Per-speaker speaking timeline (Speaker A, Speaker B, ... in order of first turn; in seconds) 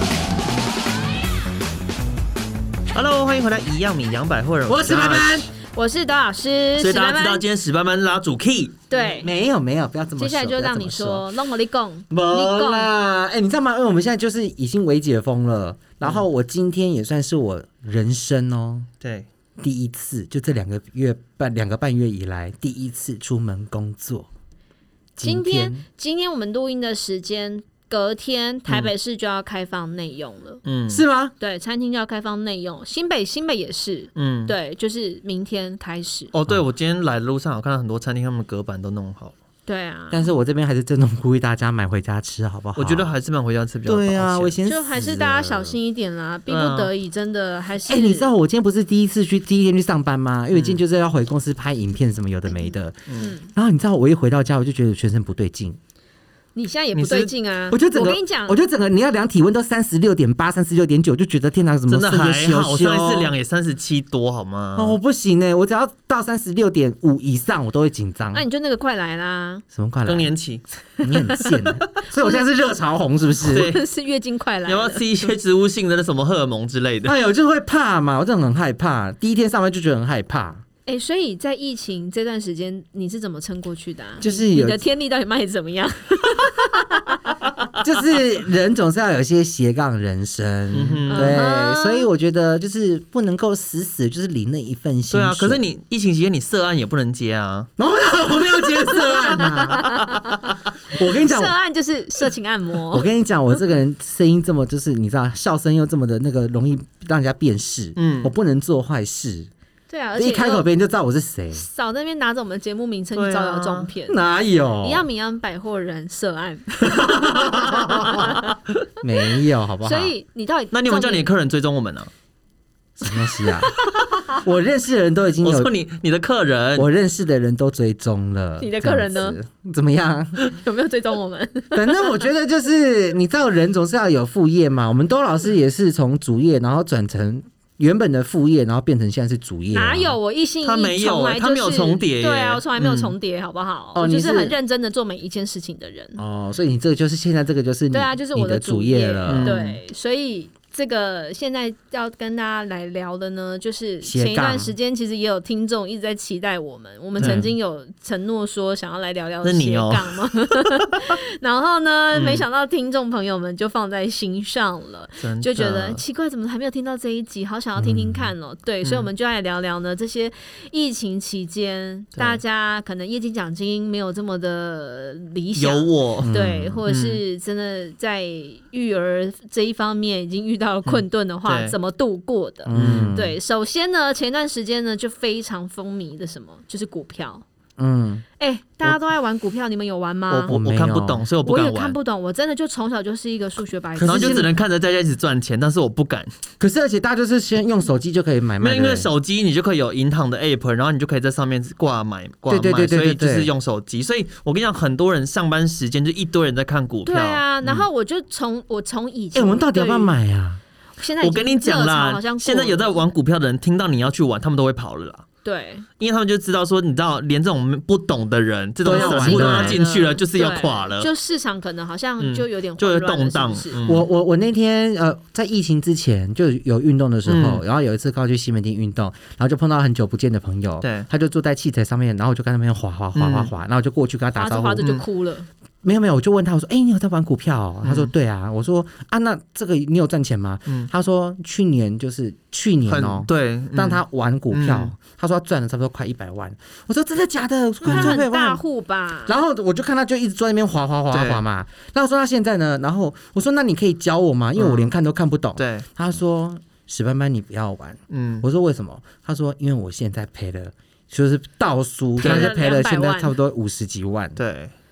Speaker A: 2.9-5.5, 6.8-8.8, 19.0-19.3, 28.7-28.9, 30.6-31.0, 34.1-34.5, 36.3-39.3, 42.8-44.5, 46.5-46.9, 50.5-50.8, 53.1-53.3, 57.0-57.2, 61.9-65.0, 70.0-70.6, 73.4-73.8, 74.6-77.1, 90.7-91.4, 95.1-97.7, 108.0-108.3, 113.1-113.9, 117.8-118.1, 120.7-122.1, 125.4-126.9, 140.6-143.1, 149.2-149.8, 157.2-157.5, 159.4-160.2, 162.1-162.4, 165.2-166.0, 168.8-169.1, 175.6-176.3, 176.9-177.2, 180.9-181.7, 182.7-183.2, 190.3-192.0, 194.0-196.3, 198.6-207.8, 211.2-215.2, 216.0-221.1, 222.2-224.0, 227.2-227.6, 230.8-231.1, 233.1-233.5, 237.8-238.1, 242.9-244.9, 247.9-248.2, 251.1-251.4, 254.6-254.9, 255.6-255.8, 258.1-258.4, 262.2-262.6, 264.4-264.7
Speaker B: 4.7-5.5, 8.9-11.3, 12.1-18.9, 19.6-24.3, 25.2-25.8, 30.9-31.3, 40.1-43.1, 43.8-45.8, 47.9-55.8, 57.0-63.3, 64.8-68.4, 69.7-70.3, 71.0-73.7, 77.0-80.6, 84.2-84.8, 87.8-95.6, 97.8-101.5, 102.9-109.5, 110.2-111.6, 114.1-115.0, 116.8-118.4, 119.0-120.1, 123.0-125.7, 126.8-130.4, 131.7-140.2, 143.9-144.6, 146.2-149.6, 154.0-154.7, 157.2-157.5, 167.8-168.3, 176.2-176.8, 182.7-183.3, 187.8-188.2, 190.5-191.2, 194.0-194.5, 196.6-199.1, 202.5-203.5, 209.3-210.6, 218.8-219.8, 223.8-234.8, 235.8-248.6, 249.3-264.4
Speaker C: 5.7-7.4, 8.9-9.3, 10.2-12.9, 25.2-30.6, 31.4-36.3, 39.6-40.3, 44.6-48.3, 52.5-53.5, 56.5-58.6, 68.3-69.6, 71.0-71.5, 73.5-75.3, 80.8-87.4, 91.1-92.1, 99.0-103.1, 109.9-110.7, 111.5-114.2, 114.8-118.6, 119.8-121.3, 123.3-124.2, 128.6-129.4, 130.4-132.3, 139.7-146.2, 147.9-187.4, 188.4-190.6, 191.4-194.5, 207.0-210.2, 211.0-213.0, 215.4-215.8, 218.9-223.8, 234.3-235.5, 247.8-249.4, 262.2-263.4